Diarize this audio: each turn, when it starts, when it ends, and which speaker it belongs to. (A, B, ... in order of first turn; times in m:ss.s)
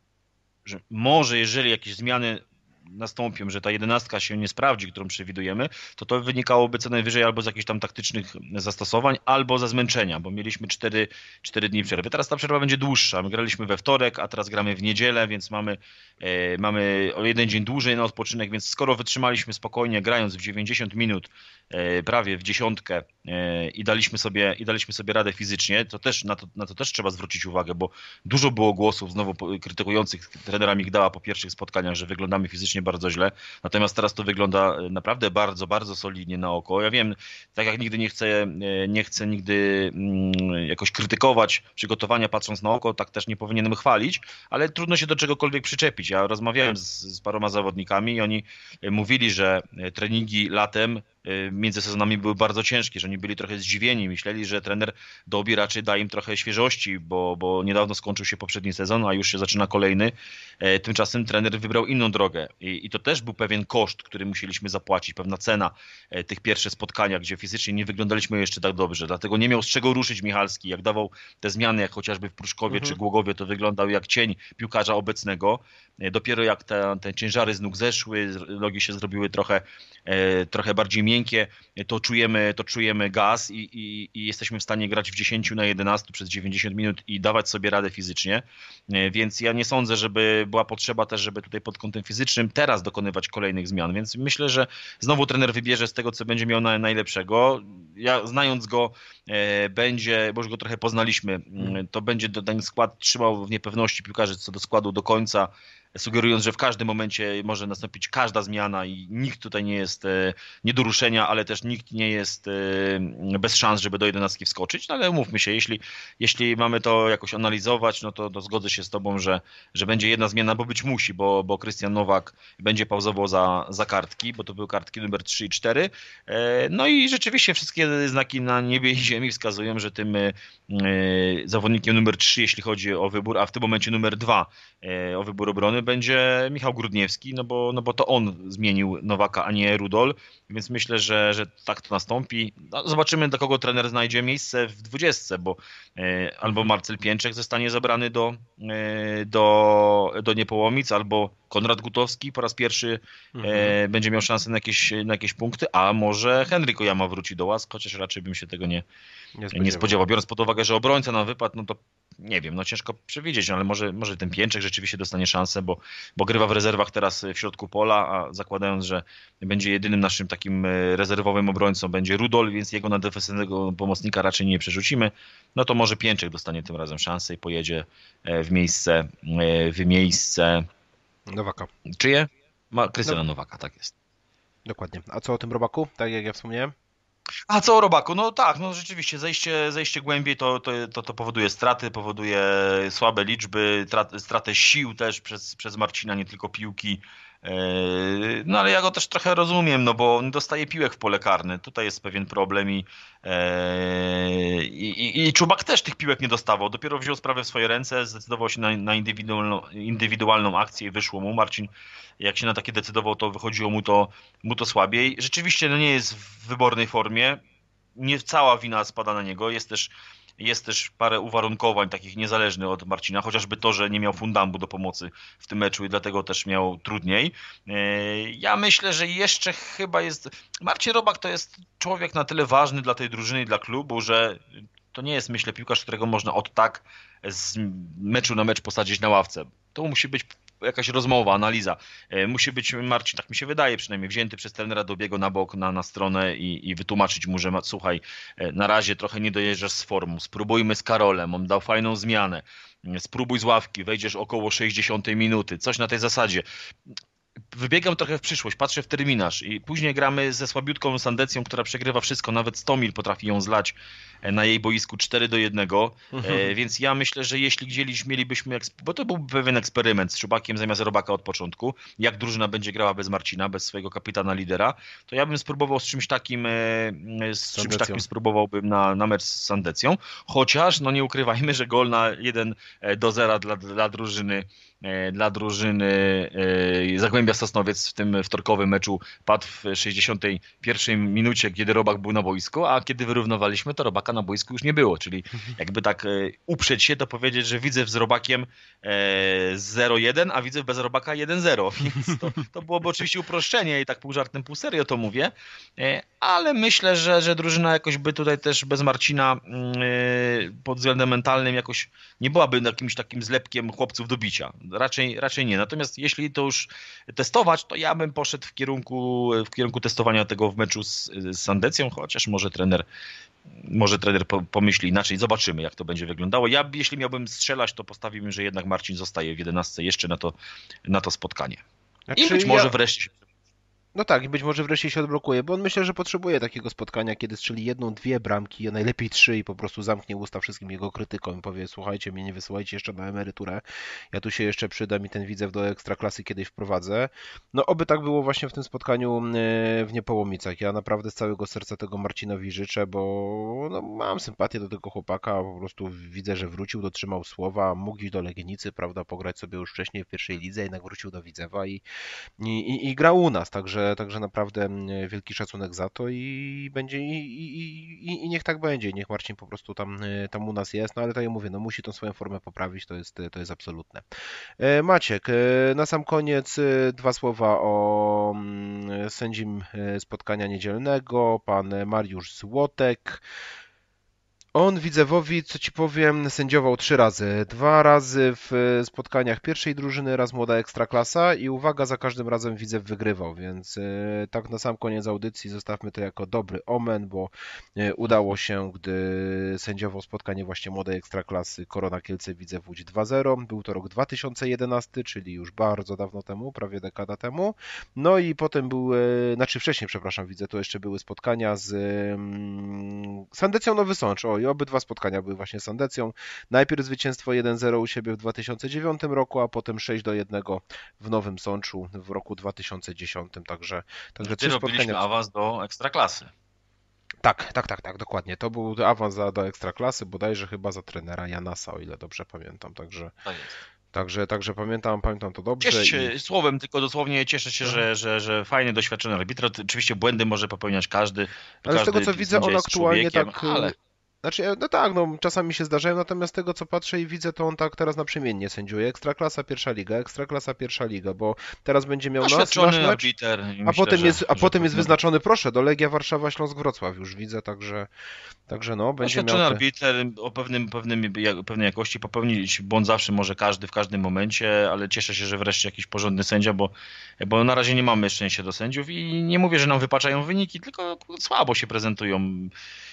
0:00.7-2:38.8 A
1:12.7-1:13.0 B
2:33.4-2:33.8 B
2:39.4-2:40.0 B
2:39.5-3:00.7 A
3:01.3-3:01.7 B
3:01.9-3:03.9 A
3:04.6-3:06.7 B
3:07.5-3:37.4 A
3:38.0-4:16.4 A
4:17.5-5:22.8 A
4:26.2-4:26.4 B
4:37.5-4:38.0 B
5:23.6-5:30.4 A
5:30.9-5:31.6 A
5:32.1-5:32.8 B
5:32.2-5:33.1 A
5:34.0-6:01.8 B
6:02.4-6:14.0 B
6:14.6-6:23.2 B
6:24.5-7:05.0 B
7:04.2-7:06.3 A
7:07.2-7:13.1 B
7:13.2-7:13.6 A
7:13.9-7:16.1 B
7:15.6-7:23.8 A
7:21.6-7:33.1 B
7:32.2-7:34.9 A
7:33.6-7:37.9 B
7:38.5-7:39.6 B
7:39.0-7:52.5 A